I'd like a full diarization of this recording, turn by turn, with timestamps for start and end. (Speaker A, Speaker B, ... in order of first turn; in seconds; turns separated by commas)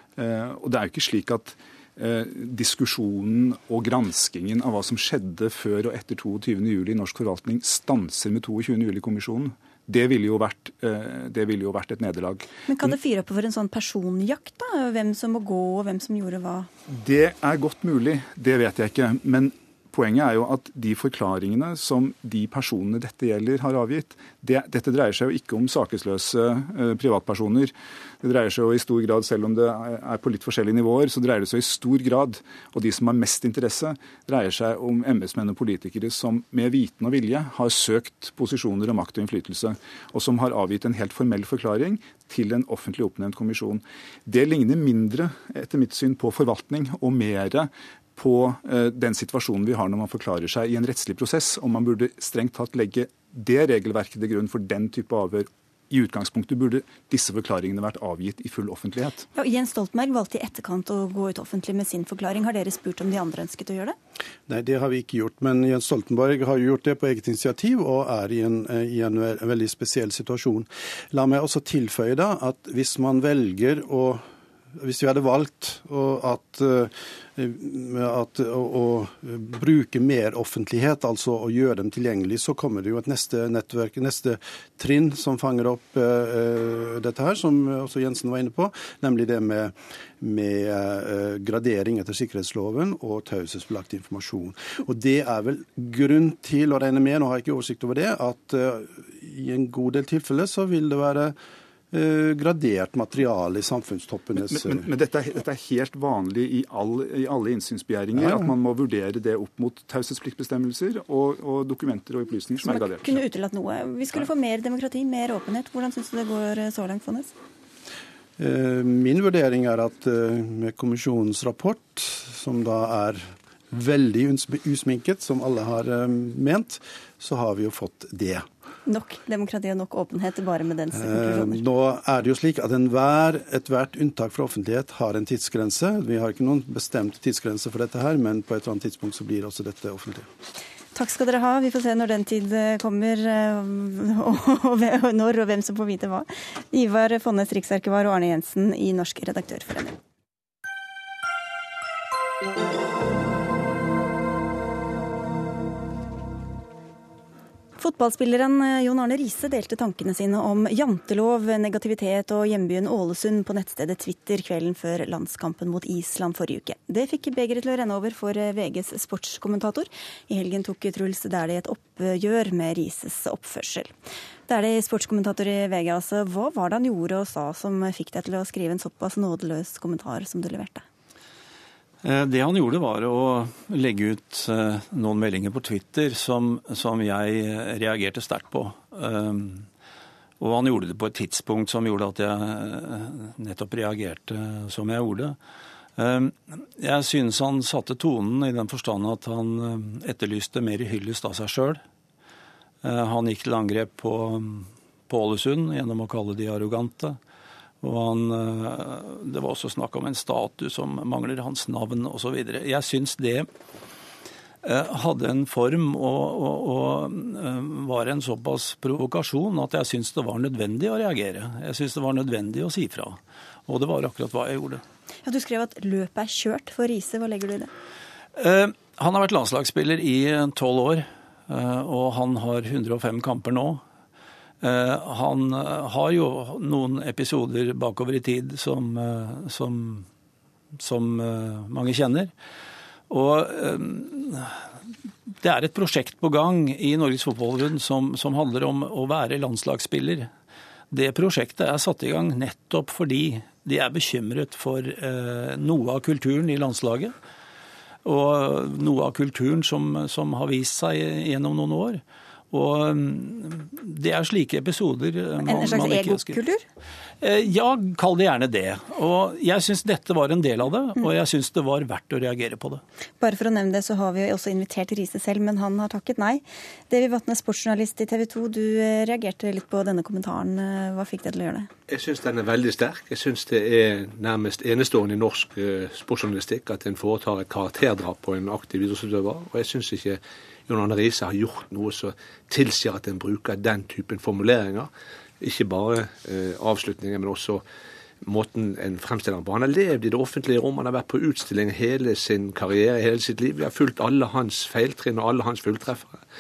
Speaker A: 0.2-12.9, Speaker B: 12.7-16.7, Speaker A: 16.9-59.2, Speaker B: 59.4-64.0, Speaker C: 64.5-74.2, Speaker C: 74.8-101.4, Speaker C: 101.9-104.9, Speaker A: 104.4-113.2, Speaker B: 112.6-117.3, Speaker C: 118.4-128.5, Speaker B: 128.9-131.6, Speaker C: 130.9-140.3, Speaker B: 140.9-150.0, Speaker B: 157.8-173.9, Speaker B: 174.5-180.8, Speaker D: 182.0-189.7, Speaker D: 190.4-195.4, Speaker D: 196.0-201.8, Speaker D: 202.8-207.2, Speaker D: 207.8-213.5, Speaker D: 214.6-224.8, Speaker B: 225.2-227.7, Speaker D: 228.4-233.8, Speaker D: 234.6-240.1, Speaker D: 240.8-242.3, Speaker D: 243.1-244.6, Speaker D: 245.4-250.3, Speaker D: 250.9-257.1, Speaker D: 258.1-266.4, Speaker B: 265.4-266.6, Speaker D: 267.2-272.8, Speaker B: 273.2-281.7, Speaker E: 281.9-294.9, Speaker E: 295.4-297.6, Speaker E: 298.2-306.2